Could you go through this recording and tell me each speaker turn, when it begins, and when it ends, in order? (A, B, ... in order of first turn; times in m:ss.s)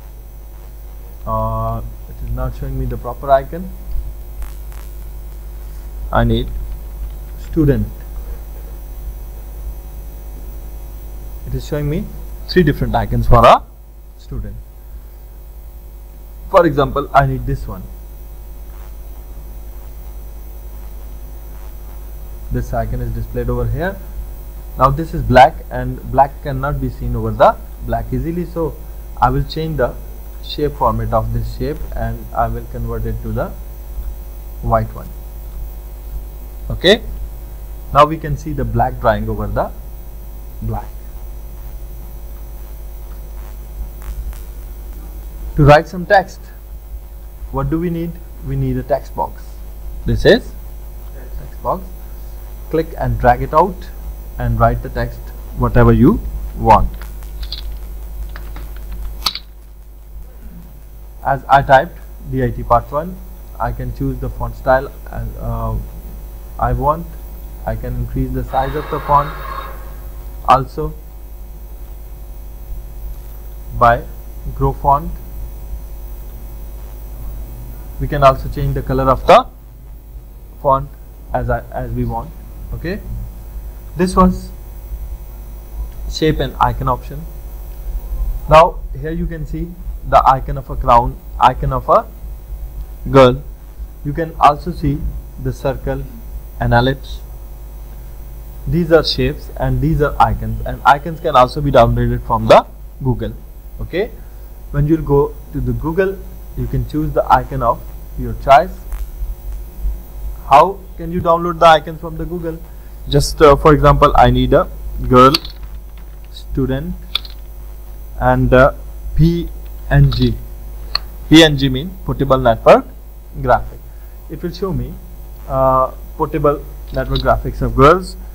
0:01.2-0:03.7 A
0:06.1-0:06.5 A
0:07.4-0:08.0 A
0:11.4-0:13.6 A
0:14.2-0:14.6 A
0:16.5-0:17.9 A
0:22.5-0:24.0 A
0:24.8-0:33.5 A
0:34.6-0:35.1 A
0:36.7-0:37.0 A
0:37.9-0:39.7 A
0:40.6-0:41.0 A
0:45.6-0:46.5 A
0:47.5-0:50.6 A
0:51.4-0:51.9 A
0:52.7-0:57.0 A
1:01.2-1:05.8 A
1:06.6-1:07.1 A
1:07.6-1:09.3 A
1:10.5-1:11.0 A
1:13.7-1:15.2 A
1:18.0-1:19.5 A
1:20.6-1:23.0 A
1:24.0-1:24.5 A
1:26.1-1:27.3 A
1:28.5-1:32.1 A
1:33.1-1:33.4 A
1:34.0-1:36.1 A
1:36.6-1:37.2 A
1:38.7-1:44.1 A
1:44.7-1:48.9 A
1:50.4-1:55.4 A
1:56.3-1:57.0 A
1:58.2-2:00.4 A
2:01.3-2:08.2 A